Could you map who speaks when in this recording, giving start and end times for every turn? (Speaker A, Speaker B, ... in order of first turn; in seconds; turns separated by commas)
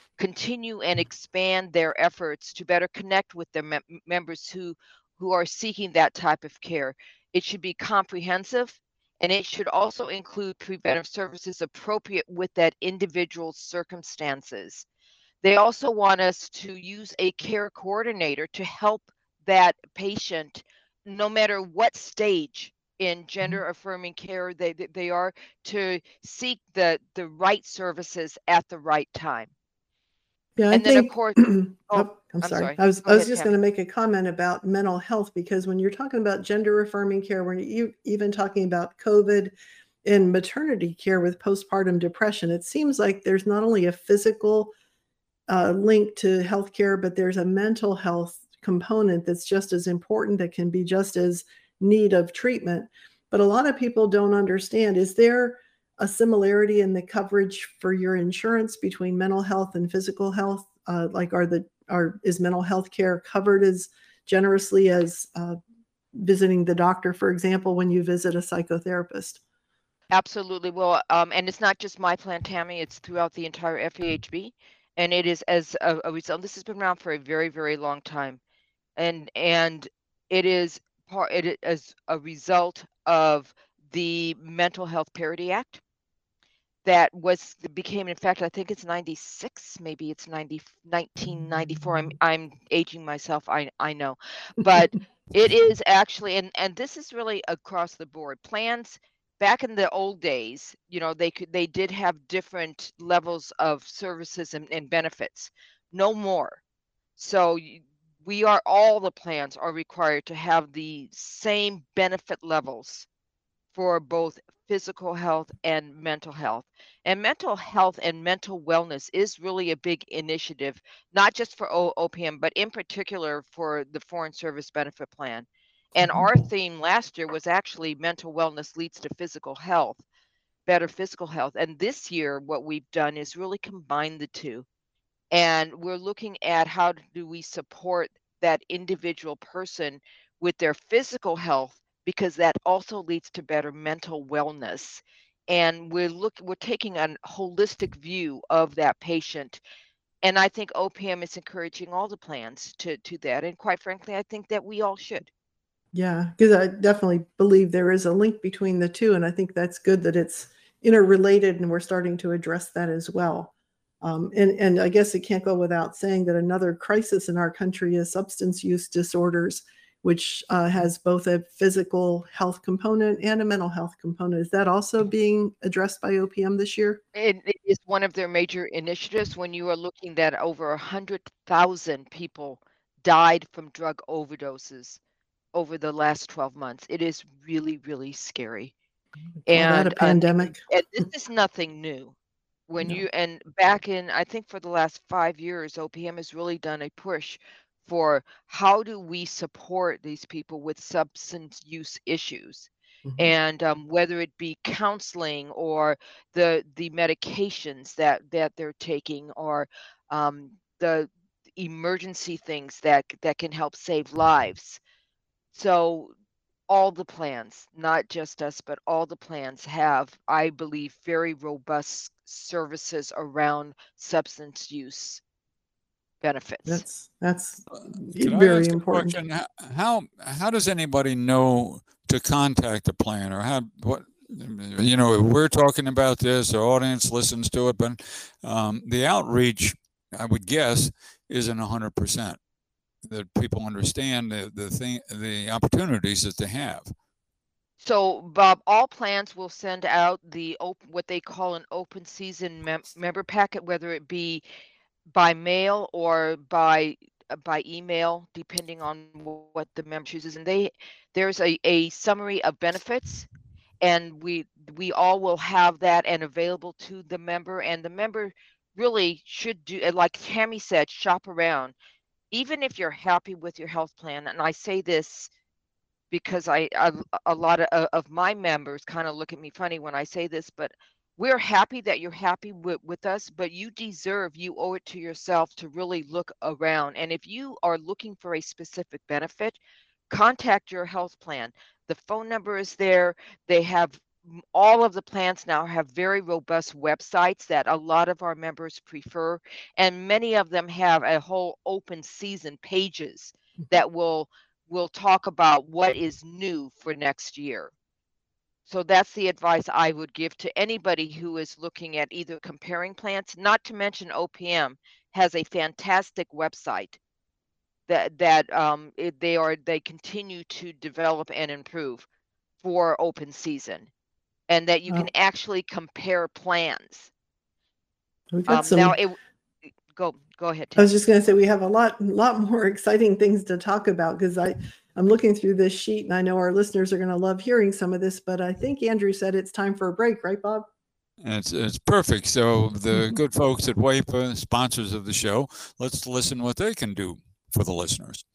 Speaker A: 0.2-14.8, Speaker A: 15.4-29.5, Speaker B: 30.6-44.7, Speaker A: 30.7-33.5, Speaker B: 45.5-65.6, Speaker B: 66.1-69.4, Speaker A: 70.1-78.4, Speaker A: 79.0-85.8, Speaker A: 86.8-106.6, Speaker A: 107.2-113.1, Speaker A: 113.7-125.5, Speaker A: 126.0-130.0, Speaker B: 126.0-126.3, Speaker A: 130.7-134.7, Speaker A: 135.3-149.6, Speaker A: 150.2-155.3, Speaker B: 155.9-177.0, Speaker A: 177.2-185.0, Speaker A: 185.5-188.7, Speaker B: 189.5-190.6, Speaker A: 189.5-192.1, Speaker A: 192.7-214.8, Speaker B: 203.1-203.3, Speaker A: 215.5-216.1, Speaker A: 216.7-225.2, Speaker A: 226.2-226.8, Speaker B: 226.7-229.2, Speaker C: 227.7-242.4, Speaker C: 243.1-246.9, Speaker A: 247.8-254.4, Speaker A: 255.1-263.3, Speaker A: 263.8-271.7, Speaker A: 272.3-275.3, Speaker A: 276.1-289.6, Speaker A: 290.1-307.7, Speaker A: 308.7-317.0, Speaker A: 317.9-322.1, Speaker A: 322.6-323.9, Speaker A: 324.5-327.1, Speaker B: 328.3-329.0, Speaker A: 328.5-329.2, Speaker A: 329.9-330.9, Speaker B: 330.8-340.7, Speaker C: 341.2-348.2, Speaker B: 342.9-343.2